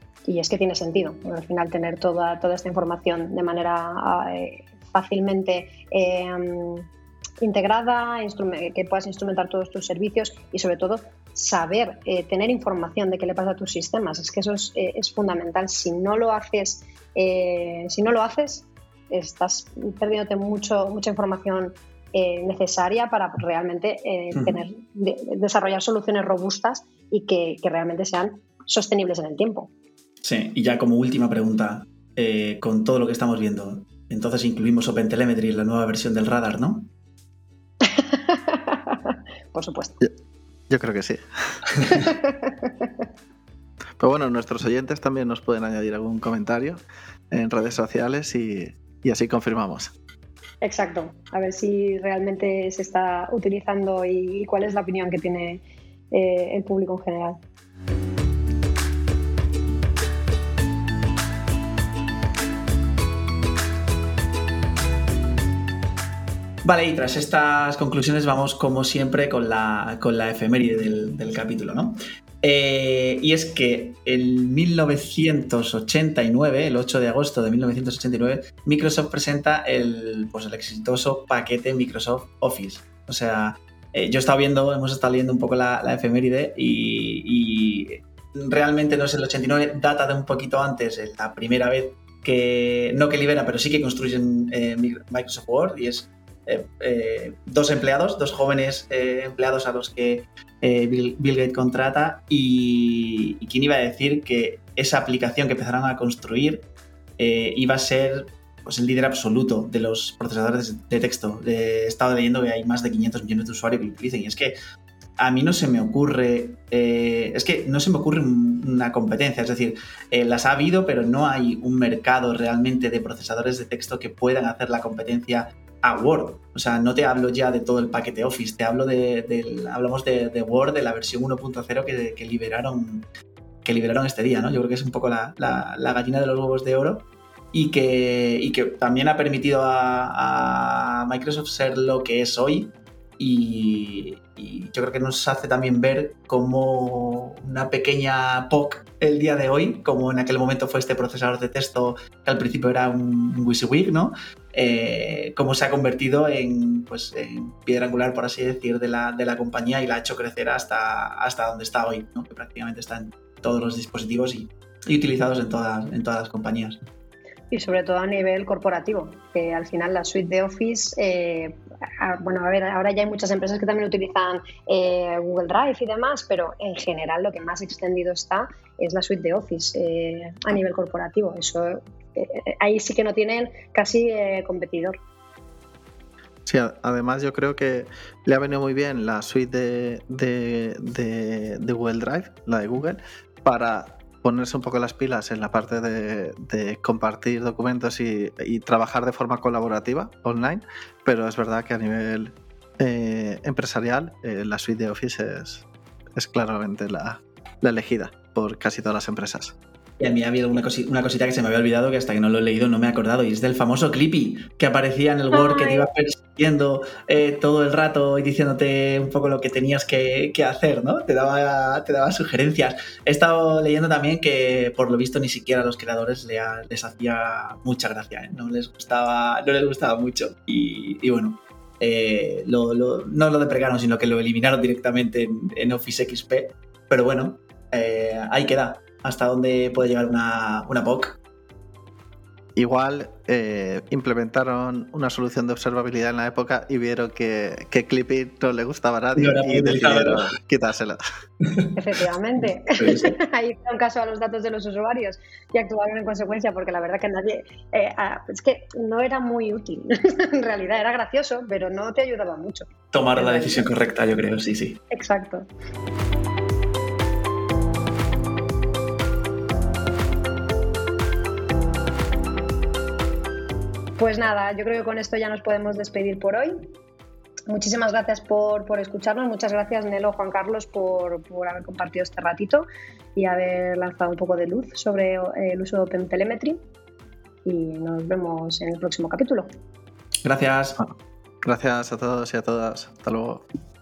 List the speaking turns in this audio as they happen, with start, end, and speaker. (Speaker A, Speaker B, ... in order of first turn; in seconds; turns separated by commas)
Speaker A: 0.2-6.9, Speaker A: 7.4-29.7, Speaker B: 24.3-24.6, Speaker B: 30.2-36.9, Speaker A: 37.8-40.0, Speaker C: 40.7-41.6, Speaker A: 41.9-43.1, Speaker C: 44.0-49.9, Speaker A: 50.6-57.4, Speaker B: 66.6-106.6, Speaker B: 107.2-114.5, Speaker B: 115.2-133.1, Speaker B: 133.6-166.8, Speaker A: 167.5-185.0, Speaker C: 186.4-209.6, Speaker B: 210.0-241.2, Speaker A: 215.3-215.9, Speaker C: 242.6-251.0, Speaker B: 249.2-250.3, Speaker A: 251.7-263.7, Speaker B: 252.7-253.2, Speaker B: 262.9-264.8, Speaker A: 264.9-265.5, Speaker A: 274.0-276.7, Speaker A: 277.5-286.6, Speaker A: 287.4-289.5, Speaker B: 290.2-290.8, Speaker C: 290.8-293.4